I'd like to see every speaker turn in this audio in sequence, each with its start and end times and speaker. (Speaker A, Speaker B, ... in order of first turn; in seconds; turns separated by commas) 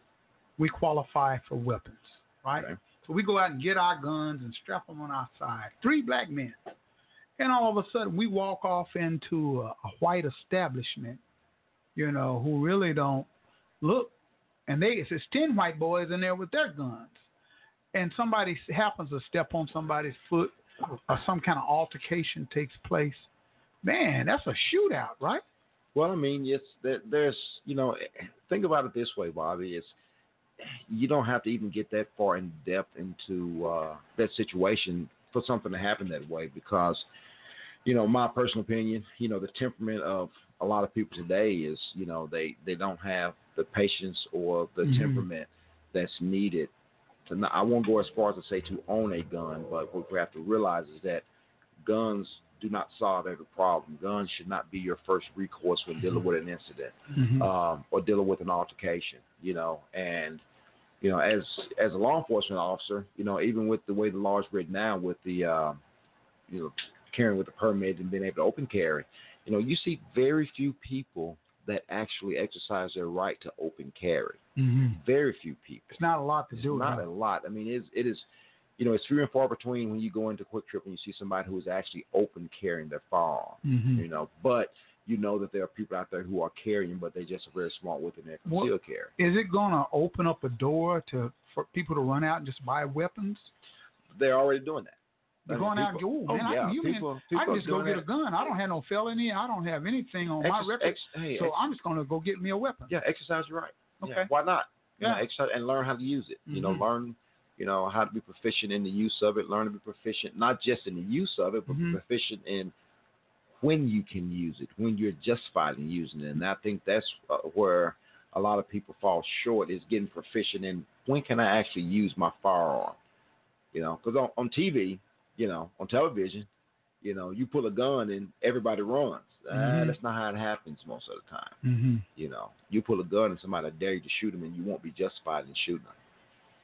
Speaker A: 0.6-6.6, Speaker A: 7.4-11.2, Speaker A: 11.9-13.3, Speaker A: 13.8-14.1, Speaker A: 14.7-17.2, Speaker A: 17.9-23.3, Speaker A: 23.8-25.4, Speaker B: 25.9-29.9, Speaker B: 30.6-37.0, Speaker B: 37.8-46.7, Speaker A: 44.8-45.3, Speaker B: 47.2-51.2, Speaker B: 51.8-60.4, Speaker A: 57.1-57.5, Speaker B: 61.0-65.8, Speaker B: 66.5-76.0, Speaker A: 74.6-75.0, Speaker A: 75.9-77.0, Speaker B: 76.5-78.2, Speaker B: 78.8-89.1, Speaker A: 83.6-84.0, Speaker A: 88.5-93.5, Speaker B: 94.1-98.1, Speaker A: 95.5-102.9, Speaker B: 100.4-101.6, Speaker B: 102.9-112.7, Speaker A: 104.0-104.3, Speaker A: 105.0-105.2, Speaker A: 106.5-106.8, Speaker A: 111.7-112.0, Speaker B: 113.6-123.0, Speaker B: 123.7-126.5, Speaker B: 127.0-131.6, Speaker A: 129.5-130.0, Speaker A: 131.6-132.1, Speaker B: 132.2-135.9